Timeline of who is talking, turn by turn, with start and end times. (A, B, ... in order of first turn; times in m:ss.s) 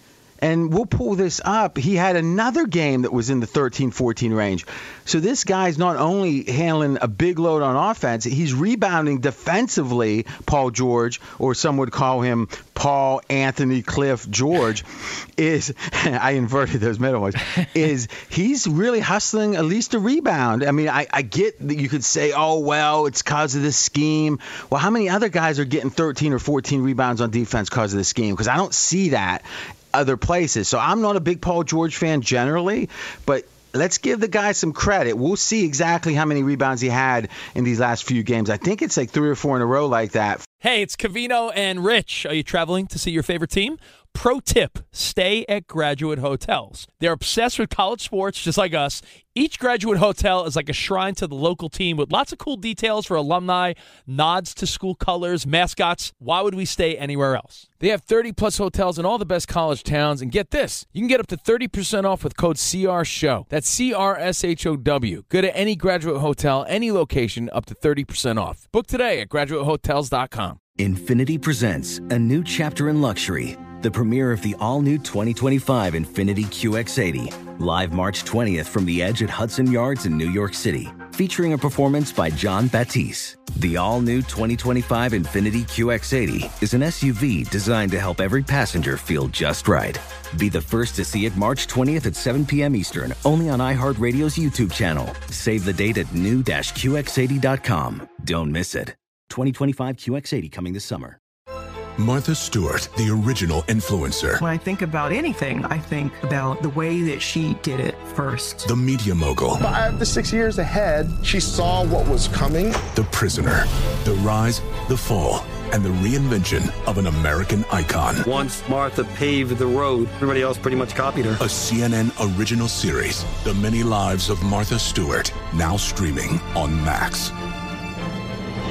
0:00.4-0:40.5 A
0:40.6-0:57.7 B
0:57.8-1:10.6 C
1:10.8-1:41.2 D
1:42.0-1:44.4 E
1:44.4-1:48.7 F
1:48.6-1:49.6 E
1:49.6-1:52.8 G
1:52.9-1:58.2 E
1:58.3-2:01.4 H
2:01.4-2:07.3 E